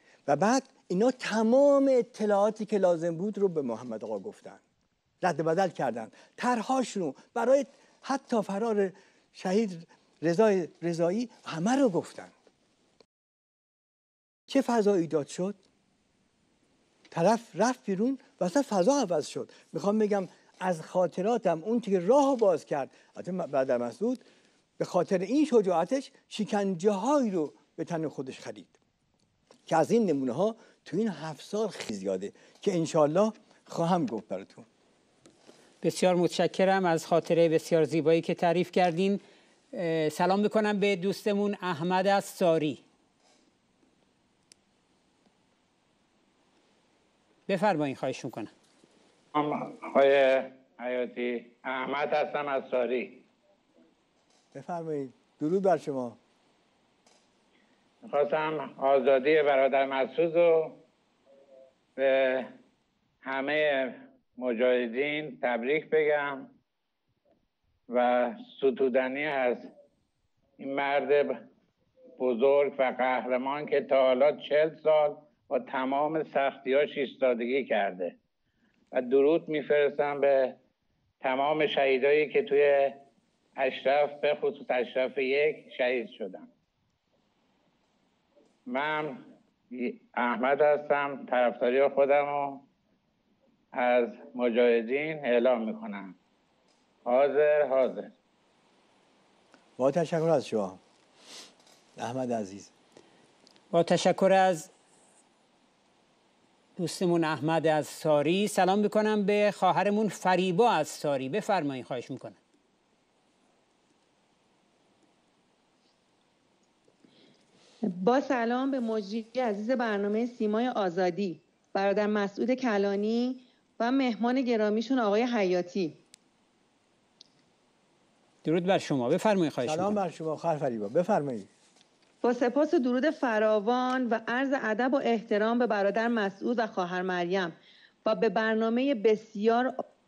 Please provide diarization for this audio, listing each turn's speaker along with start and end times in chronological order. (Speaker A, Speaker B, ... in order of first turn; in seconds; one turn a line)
Speaker A: 0.2-4.6
Speaker A: 5.2-12.3
Speaker A: 14.5-15.6
Speaker A: 17.1-24.2
Speaker A: 24.8-28.7
Speaker A: 29.7-34.7
Speaker B: 35.8-39.2
Speaker B: 39.7-42.8
Speaker B: 47.5-48.5
Speaker C: 49.3-53.3
Speaker A: 54.5-56.2
Speaker C: 58.0-60.8
Speaker C: 62.0-62.5
Speaker C: 63.2-66.5
Speaker C: 67.9-69.7
Speaker C: 70.6-71.4
Speaker C: 72.2-78.2
Speaker C: 78.9-80.6
Speaker C: 81.2-83.0
Speaker C: 83.6-86.5
Speaker C: 88.7-92.6
Speaker C: 93.8-96.2
Speaker C: 97.0-98.1
Speaker A: 99.8-100.8
Speaker A: 102.0-102.7
Speaker B: 103.7-104.7
Speaker B: 106.8-112.4
Speaker D: 117.8-126.0
Speaker B: 128.4-130.0
Speaker A: 129.6-131.5
Speaker D: 132.2-139.8